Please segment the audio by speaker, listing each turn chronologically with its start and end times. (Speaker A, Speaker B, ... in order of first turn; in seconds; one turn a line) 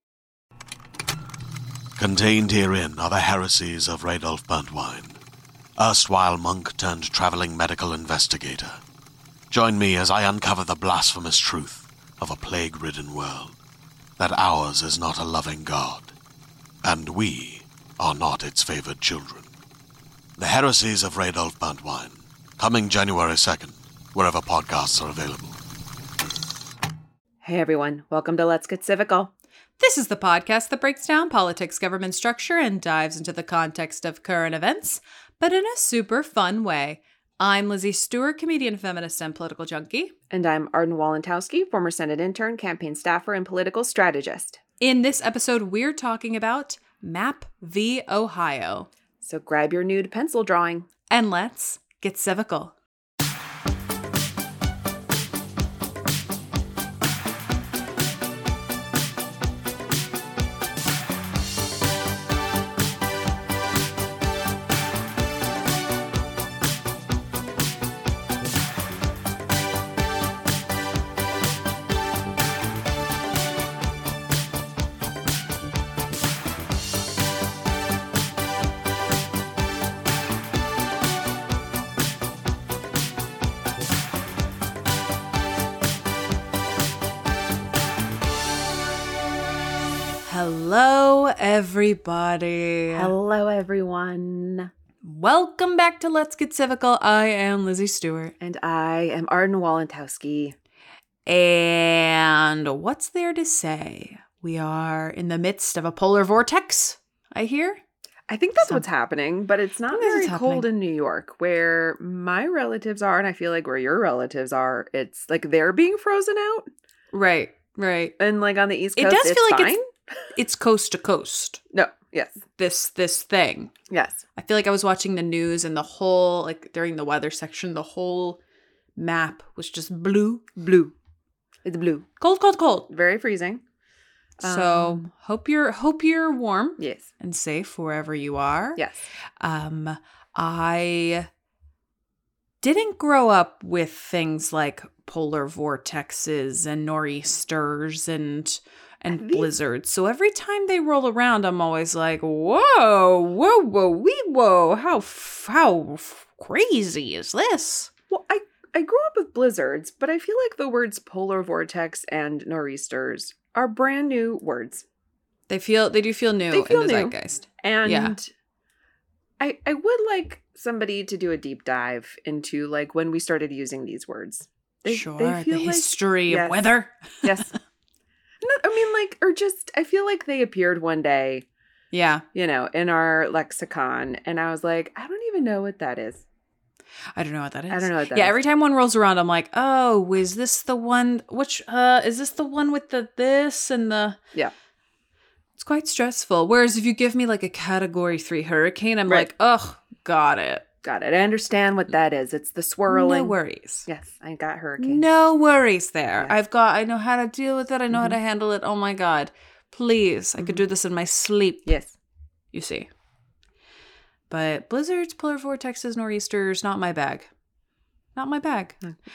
Speaker A: 2.0-5.2
Speaker A: 5.8-8.8
Speaker A: 9.5-13.6
Speaker A: 14.2-16.1
Speaker A: 16.8-19.5
Speaker A: 20.4-25.6
Speaker B: 27.4-29.3
Speaker C: 29.8-40.1
Speaker B: 40.3-44.6
Speaker C: 44.8-48.9
Speaker B: 49.2-50.9
Speaker C: 51.1-52.7
Speaker C: 90.2-93.1
Speaker B: 92.9-94.7
Speaker C: 95.0-98.3
Speaker B: 98.4-100.5
Speaker C: 101.2-107.8
Speaker B: 108.3-116.7
Speaker C: 109.9-110.7
Speaker C: 117.1-118.1
Speaker B: 118.2-119.8
Speaker C: 119.0-119.8
Speaker C: 120.3-121.6
Speaker B: 121.7-122.4
Speaker C: 122.5-123.7
Speaker B: 123.9-124.2
Speaker C: 124.3-128.4
Speaker C: 128.9-130.6
Speaker B: 130.6-130.9
Speaker B: 131.6-132.1
Speaker C: 132.2-132.9
Speaker B: 132.9-133.6
Speaker B: 134.4-135.0
Speaker C: 134.4-138.8
Speaker B: 136.8-137.1
Speaker C: 139.4-141.3
Speaker C: 142.6-157.9
Speaker B: 149.1-149.5
Speaker B: 158.1-164.8
Speaker C: 165.5-168.2
Speaker B: 166.5-168.3
Speaker B: 169.4-176.6
Speaker C: 174.9-177.4
Speaker B: 177.2-177.5
Speaker B: 178.4-181.4
Speaker C: 181.9-182.2
Speaker B: 182.3-186.2
Speaker C: 187.1-194.2
Speaker B: 187.7-188.3
Speaker C: 195.6-200.6
Speaker B: 200.8-203.3
Speaker C: 202.9-203.8
Speaker B: 203.9-205.0
Speaker C: 204.8-211.7
Speaker B: 207.9-208.2
Speaker B: 211.7-211.9
Speaker C: 212.5-212.9
Speaker C: 214.3-217.3
Speaker C: 218.2-218.8